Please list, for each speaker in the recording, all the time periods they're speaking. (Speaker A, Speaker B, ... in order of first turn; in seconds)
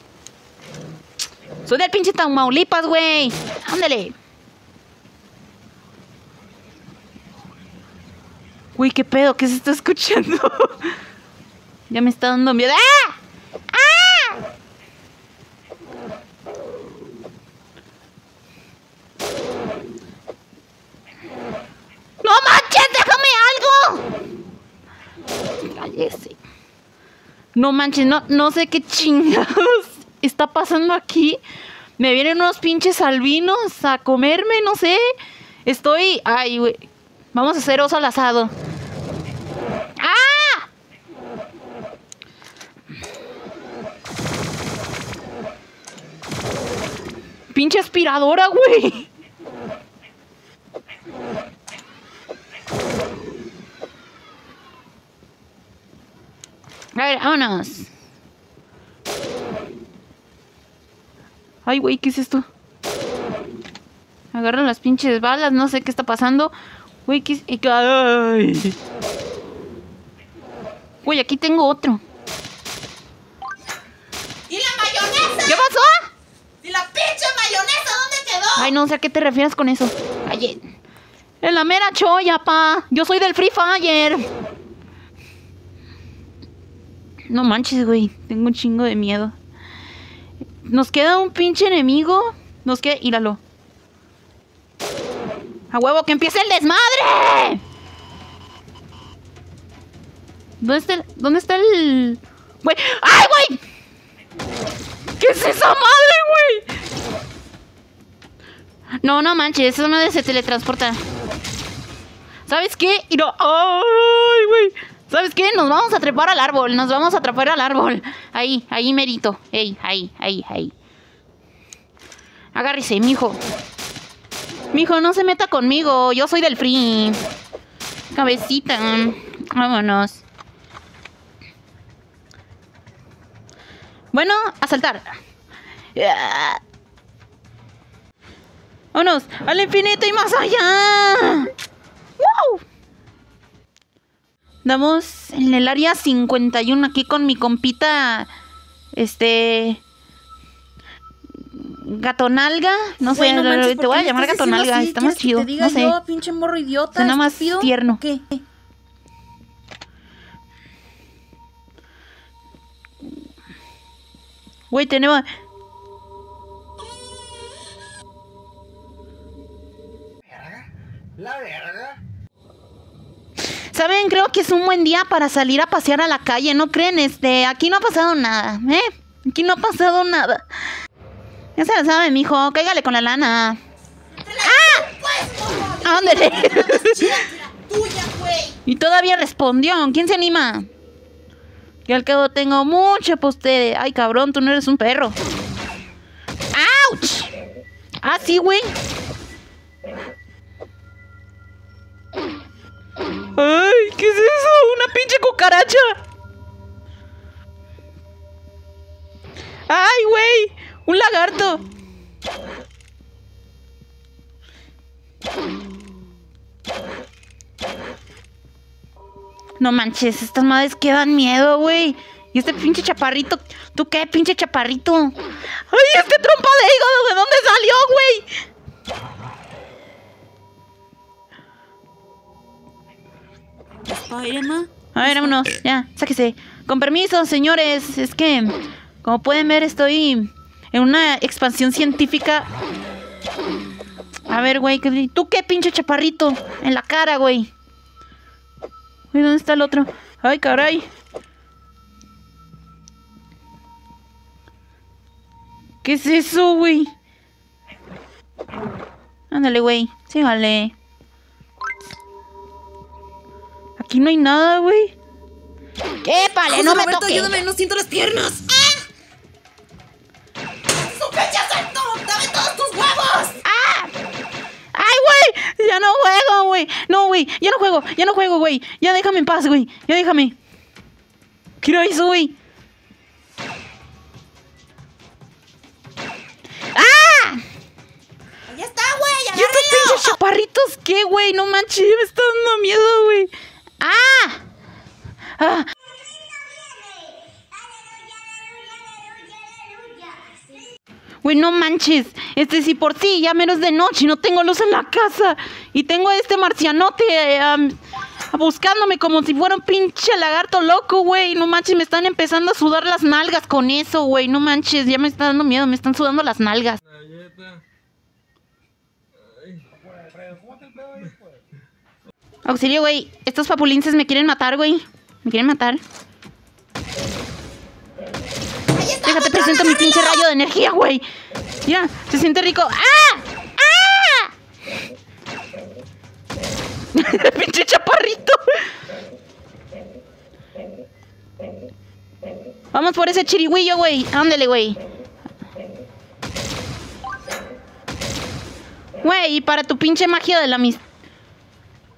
Speaker A: 1.6-4.1, 8.8-10.9, 11.9-13.2, 13.7-14.4, 22.2-24.0, 25.6-26.4, 27.5-31.4, 32.0-35.0, 35.6-38.5, 40.0-40.7, 47.5-49.1, 56.9-57.9, 61.6-62.5, 64.3-66.5, 67.0-68.8, 71.0-72.0, 75.5-76.0, 78.6-80.6, 81.4-84.2, 87.3-89.3, 90.6-93.4, 95.7-97.6, 100.6-103.6, 105.2-106.6, 109.0-111.0, 112.5-120.7, 122.5-123.4, 124.7-127.2, 128.1-130.2, 134.1-135.1, 135.9-136.6, 138.9-141.5, 142.2-142.6, 144.6-148.3, 148.9-149.8, 151.5-156.0, 156.9-158.0, 164.7-165.2, 173.6-180.4, 181.6-183.6, 184.4-184.8, 185.8-187.2, 188.7-190.7, 191.8-195.2, 196.5-197.3, 198.0-198.7, 203.3-206.0, 209.7-211.6, 219.6-225.2, 225.7-228.3, 234.9-242.5, 244.3-247.5, 249.1-250.8, 255.8-256.9, 259.3-260.7, 263.8-264.9, 266.0-267.3, 273.4-273.9, 274.7-280.3, 281.6-282.3, 286.7-287.4, 289.3-294.4, 295.4-295.7, 301.2-307.8, 308.3-316.8, 322.4-325.8, 329.0-331.0, 331.6-334.3, 336.9-338.6, 342.7-344.8, 349.0-350.8
Speaker B: 74.5-75.7, 76.6-78.7, 153.0-158.4, 184.2-188.6, 233.9-235.4, 266.0-268.9, 270.8-273.4, 288.5-290.1, 299.7-300.2, 328.7-330.2